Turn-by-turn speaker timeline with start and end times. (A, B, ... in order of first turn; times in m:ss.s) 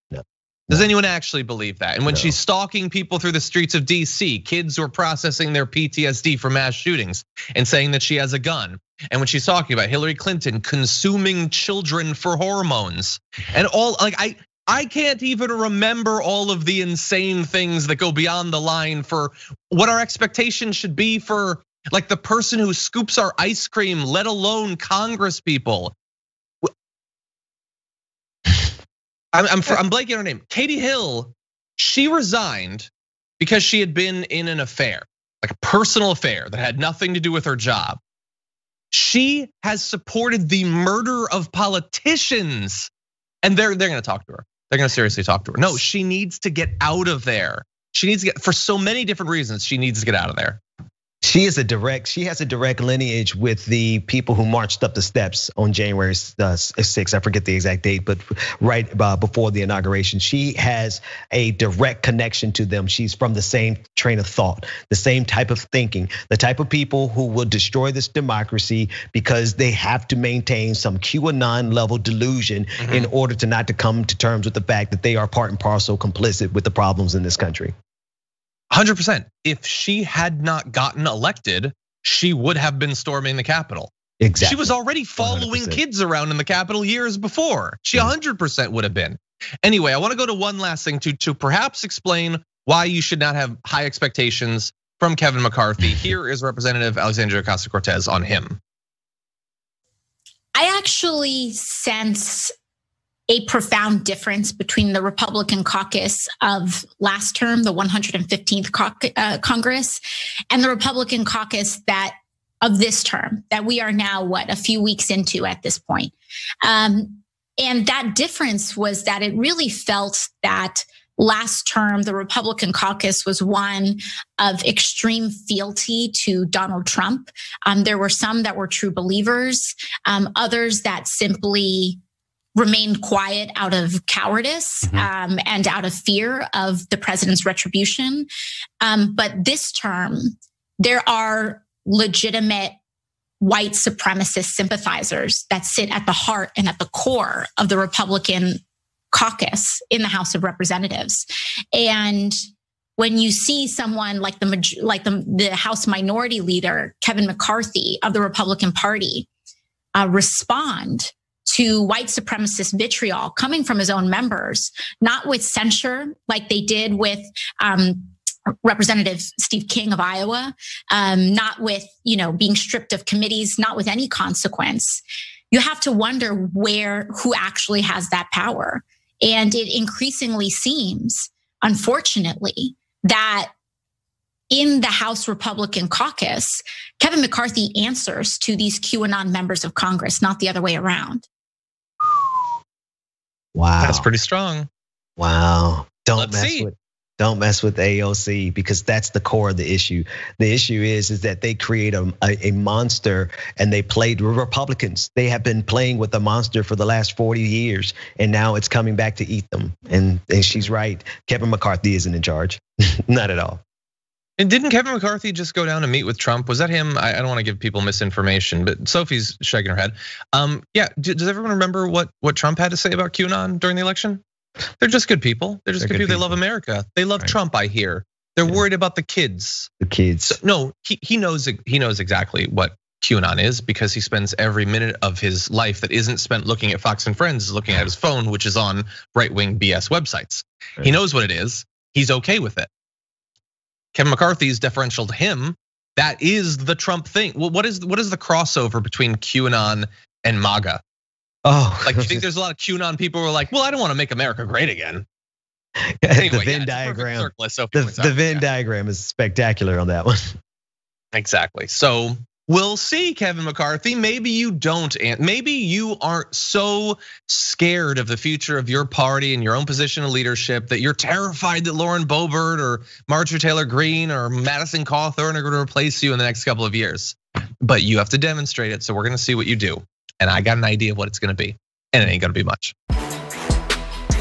0:00.1-0:00.9 A
0:00.7-0:25.9 B
0:02.1-0:02.3 A
0:29.3-0:38.0 B
0:38.9-0:42.9 B
0:43.4-0:50.6 B
0:51.2-1:17.7 A
1:12.8-1:13.1 B
1:18.7-1:23.9 B
1:24.2-1:25.8 A
1:24.4-1:38.6 B
1:40.6-1:42.5 C
1:43.3-1:56.1 C
1:56.6-2:12.0 C
2:12.6-2:18.3 C
2:18.8-2:22.8 C
2:23.4-2:28.6 C
2:29.1-2:32.4 C
2:33.0-2:39.3 C
2:40.0-2:48.1 C
2:48.6-3:03.5 C
3:04.5-3:11.2 C
3:13.6-3:14.1 A
3:13.8-3:14.7 B
3:15.2-3:33.6 A
3:16.2-3:16.7 B
3:34.4-3:44.2 B
3:44.8-3:49.7 B
3:45.8-3:46.4 A
3:49.8-3:50.4 A
3:50.2-4:02.7 B
4:03.9-4:10.8 B
4:11.4-4:12.2 A
4:11.8-4:15.1 B
4:16.0-4:20.4 A
4:16.2-4:18.4 B
4:21.1-4:42.7 B